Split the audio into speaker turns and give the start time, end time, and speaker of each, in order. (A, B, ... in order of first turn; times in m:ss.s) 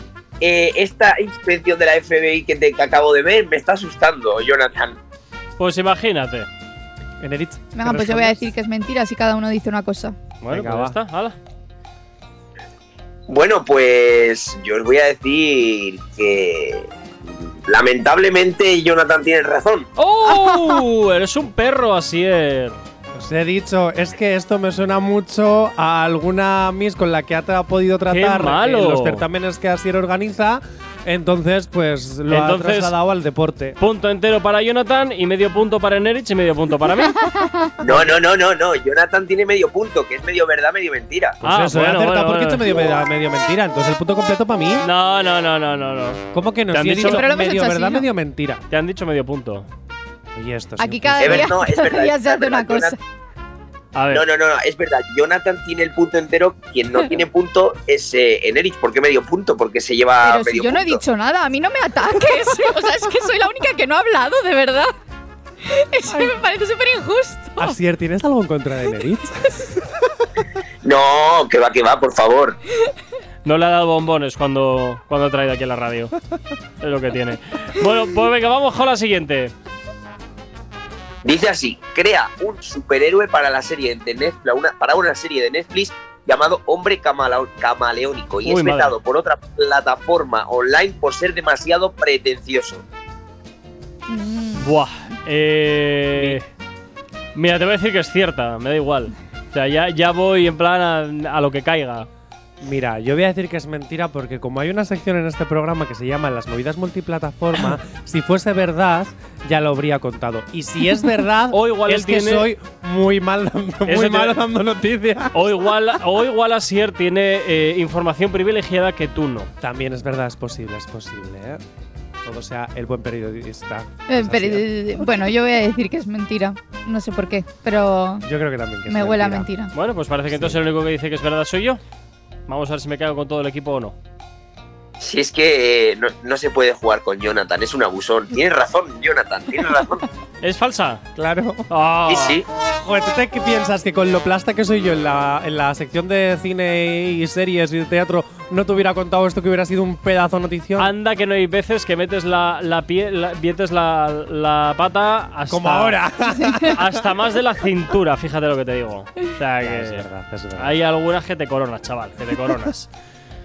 0:00.4-0:05.0 A
0:05.6-0:06.5 B
0:07.2-0:08.4 C
0:07.7-0:10.2 D
0:10.4-0:11.4 B
0:10.5-0:11.0 C
0:13.3-0:16.9 A
0:17.6-0:19.9 A
0:20.0-0:22.8 B
0:23.1-0:33.8 C
0:28.1-0:29.2 B
0:32.3-0:32.9 B
0:33.8-0:37.2 B
0:37.1-0:37.7 D
0:37.8-0:41.4 A
0:37.8-0:38.2 C
0:41.4-0:44.9 C
0:41.4-0:42.7 B
0:44.8-0:47.2 B
0:46.3-0:48.6 C
0:47.0-0:48.0 D
0:48.7-0:49.7 B
0:50.4-0:51.5 C
0:50.8-0:53.0 D
0:51.2-0:53.0 A
0:53.9-0:54.2 B
0:54.1-1:01.0 A
1:00.2-1:04.9 D
1:05.6-1:07.8 D
1:06.1-1:06.3 C
1:07.6-1:10.0 C
1:10.8-1:12.6 A
1:13.4-1:16.1 B
1:16.8-1:19.5 B
1:21.2-1:32.8 A
1:28.4-1:28.9 B
1:34.1-1:34.7 D
1:34.6-1:36.4 B
1:36.1-1:36.4 C
1:37.3-1:42.1 B
1:42.6-1:55.6 C
1:51.5-1:52.5 B
1:53.9-1:54.4 B
1:55.3-1:59.5 B
1:59.6-2:01.6 C
2:02.2-2:04.7 C
2:04.1-2:08.3 D
2:08.2-2:09.5 C
2:08.9-2:09.7 D
2:09.7-2:11.8 B
2:10.3-2:10.6 C
2:12.5-2:13.9 B
2:15.0-2:20.0 A
2:20.4-2:21.1 B
2:21.2-2:21.7 C
2:21.7-2:22.4 B
2:22.1-2:22.4 A
2:22.8-2:30.9 C
2:30.8-2:36.0 B
2:35.5-2:37.1 C
2:36.3-2:36.7 D
2:36.7-2:40.0 B
2:39.6-2:40.8 C
2:40.6-2:42.9 B